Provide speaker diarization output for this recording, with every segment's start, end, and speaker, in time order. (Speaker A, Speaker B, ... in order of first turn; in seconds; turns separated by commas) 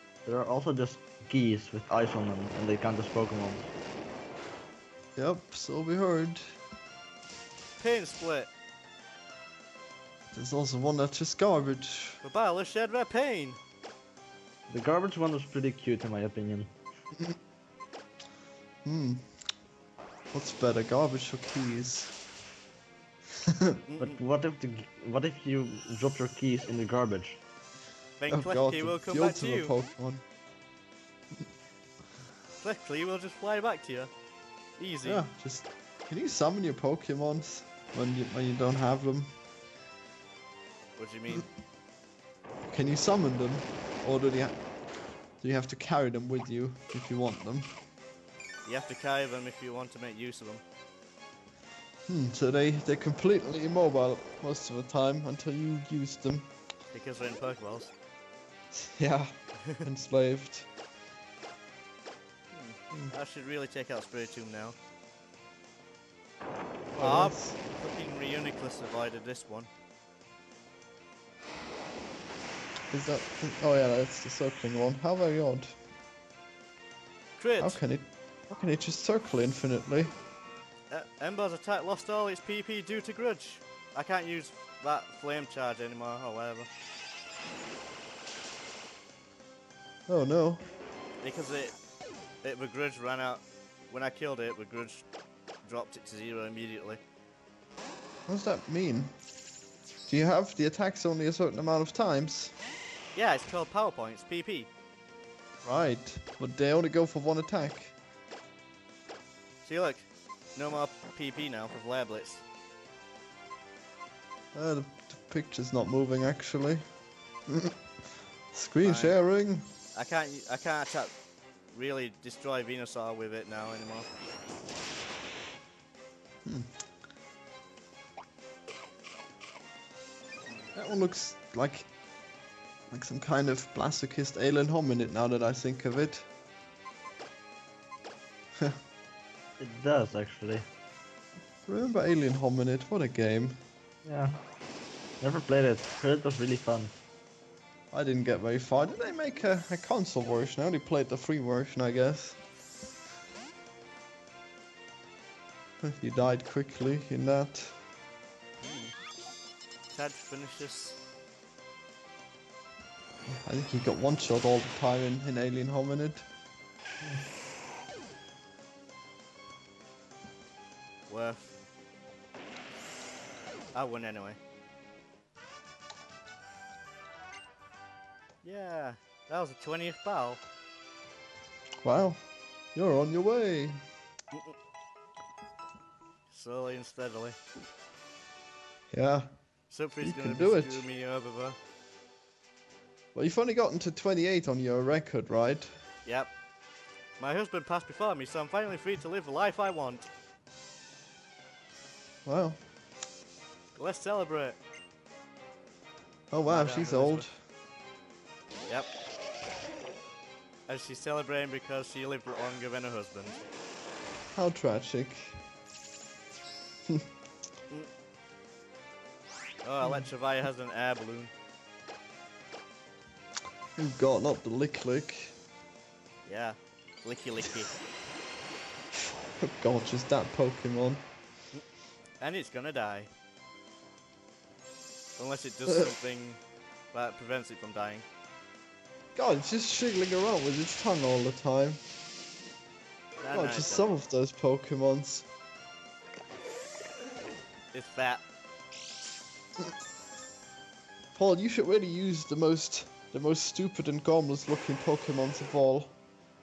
Speaker A: 0.2-3.7, Speaker B: 5.2-6.5, Speaker C: 7.8-8.5, Speaker B: 10.3-12.2, Speaker C: 12.2-13.6, Speaker A: 14.7-16.7, Speaker B: 18.8-19.3, Speaker B: 20.3-22.1, Speaker B: 23.4-23.8, Speaker C: 23.9-24.2, Speaker A: 24.0-27.4, Speaker C: 28.2-29.7, Speaker B: 28.3-30.2, Speaker C: 32.6-34.1, Speaker C: 34.8-35.2, Speaker B: 35.0-39.3, Speaker C: 41.0-41.5, Speaker B: 42.7-44.6, Speaker B: 45.4-47.7, Speaker C: 48.6-50.6, Speaker B: 52.1-56.5, Speaker C: 56.9-57.9, Speaker B: 58.7-60.7, Speaker C: 62.5-64.8, Speaker B: 67.0-67.6, Speaker C: 67.0-69.7, Speaker B: 72.9-75.7, Speaker C: 77.4-77.8, Speaker B: 77.6-80.1, Speaker C: 80.9-86.7, Speaker B: 90.1-90.6, Speaker C: 91.2-91.8, Speaker C: 92.4-95.0, Speaker C: 95.6-97.0, Speaker B: 98.3-99.1, Speaker B: 100.1-102.5, Speaker C: 103.1-104.7, Speaker B: 105.6-107.9, Speaker C: 109.6-112.4, Speaker B: 114.5-116.8, Speaker B: 117.5-117.8, Speaker B: 118.5-119.7, Speaker C: 118.8-119.2, Speaker C: 119.9-121.1, Speaker C: 121.7-124.1, Speaker B: 126.4-126.7, Speaker B: 130.7-131.9, Speaker B: 132.9-136.3, Speaker A: 139.6-140.7, Speaker B: 141.7-143.6, Speaker A: 144.0-144.4, Speaker A: 145.2-146.9, Speaker B: 147.9-152.4, Speaker B: 155.8-157.8, Speaker C: 158.6-158.9, Speaker C: 159.9-161.0, Speaker B: 163.3-166.2, Speaker C: 171.1-171.5, Speaker C: 173.7-174.4, Speaker C: 178.4-180.4, Speaker B: 181.8-182.2, Speaker B: 182.7-183.8, Speaker C: 186.3-187.4, Speaker B: 188.9-189.3, Speaker C: 189.7-191.6, Speaker B: 190.0-190.8, Speaker B: 193.1-195.7, Speaker C: 196.0-196.3, Speaker C: 197.2-200.1, Speaker B: 202.2-202.6, Speaker C: 203.8-204.6, Speaker B: 206.3-207.3, Speaker C: 206.4-207.2, Speaker C: 210.7-213.4, Speaker B: 214.3-215.4, Speaker C: 219.6-221.3, Speaker B: 223.8-225.3, Speaker C: 226.2-227.7, Speaker B: 229.4-231.0, Speaker C: 232.2-233.1, Speaker C: 235.2-236.4, Speaker C: 236.9-238.0, Speaker B: 239.1-241.8, Speaker C: 243.2-243.9, Speaker B: 243.3-245.3, Speaker C: 247.7-248.2, Speaker B: 251.1-256.0